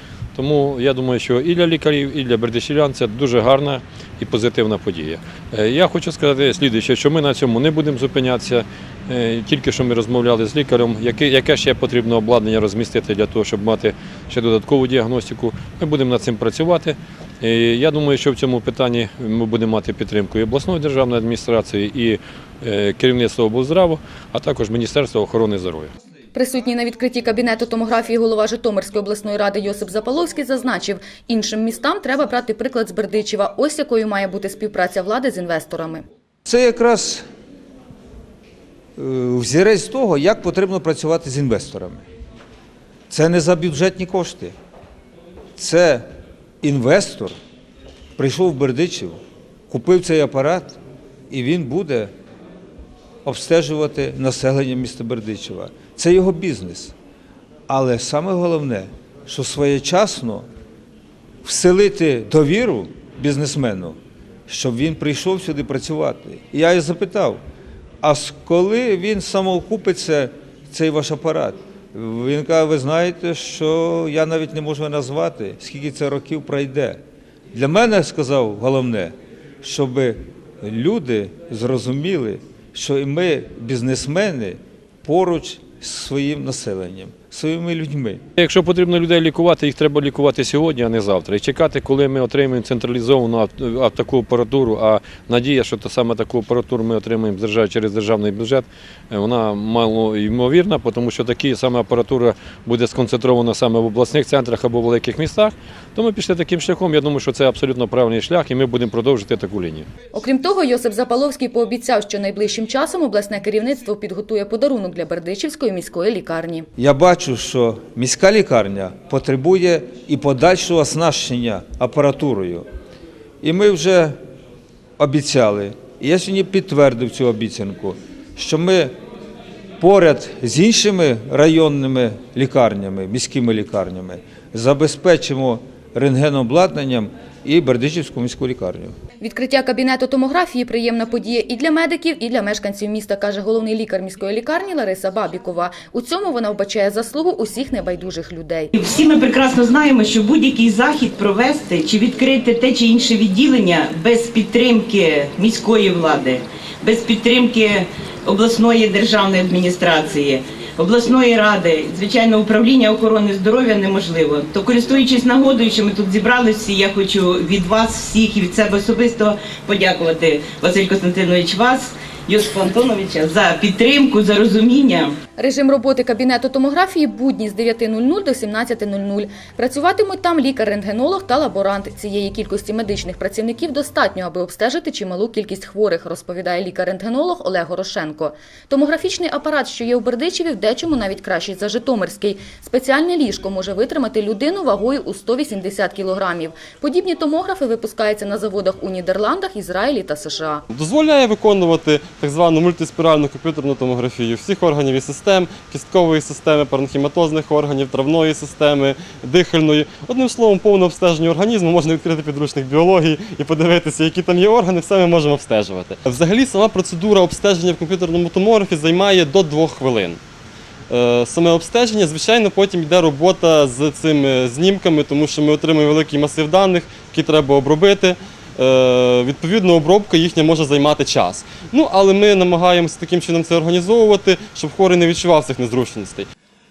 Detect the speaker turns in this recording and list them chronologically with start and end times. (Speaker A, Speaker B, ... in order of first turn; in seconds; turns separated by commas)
Speaker A: 0.3-25.9, Speaker B: 26.3-36.0, Speaker C: 36.5-37.2, Speaker C: 39.0-42.0, Speaker C: 43.1-44.5, Speaker C: 45.6-46.0, Speaker C: 46.6-47.3, Speaker C: 48.2-52.1, Speaker C: 53.2-56.9, Speaker C: 57.7-60.5, Speaker C: 61.4-64.0, Speaker C: 64.5-67.4, Speaker C: 68.0-77.0, Speaker C: 77.5-88.2, Speaker A: 88.4-109.9, Speaker B: 110.1-116.7, Speaker C: 116.8-122.7, Speaker C: 123.4-124.2, Speaker C: 125.0-128.9, Speaker C: 129.8-138.9, Speaker B: 139.2-148.7, Speaker D: 148.7-175.2, Speaker B: 175.4-200.6, Speaker E: 200.7-220.2, Speaker E: 220.9-236.3